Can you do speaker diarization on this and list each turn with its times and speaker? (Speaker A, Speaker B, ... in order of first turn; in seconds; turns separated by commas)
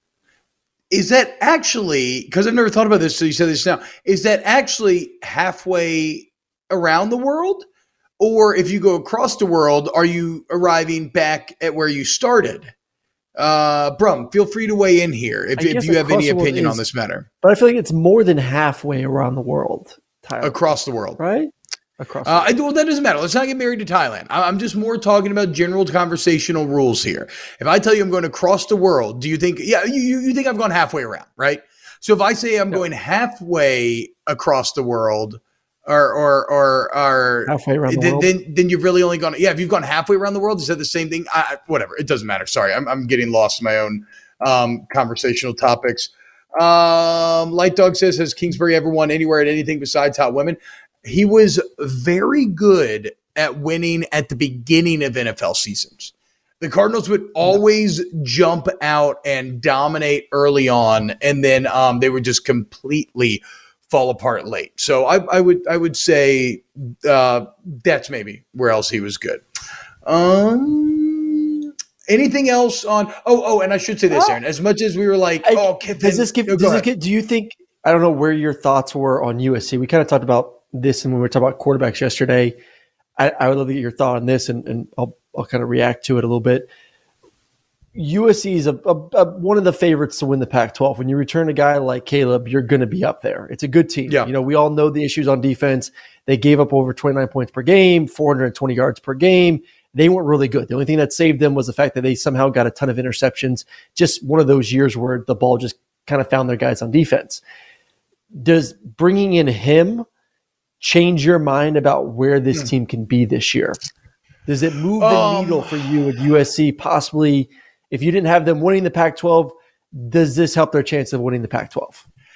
Speaker A: 0.9-7.7, Speaker A: 8.2-12.7, Speaker A: 13.4-17.2, Speaker B: 15.6-16.8, Speaker B: 17.4-20.6, Speaker A: 20.4-21.2, Speaker B: 21.2-22.5, Speaker A: 22.2-69.4, Speaker B: 37.5-38.3, Speaker A: 70.0-76.9, Speaker B: 74.1-74.4, Speaker B: 75.4-82.5, Speaker B: 83.2-86.7, Speaker B: 87.9-107.4, Speaker B: 108.3-110.1, Speaker B: 110.8-113.8, Speaker B: 114.5-122.0, Speaker A: 115.0-116.1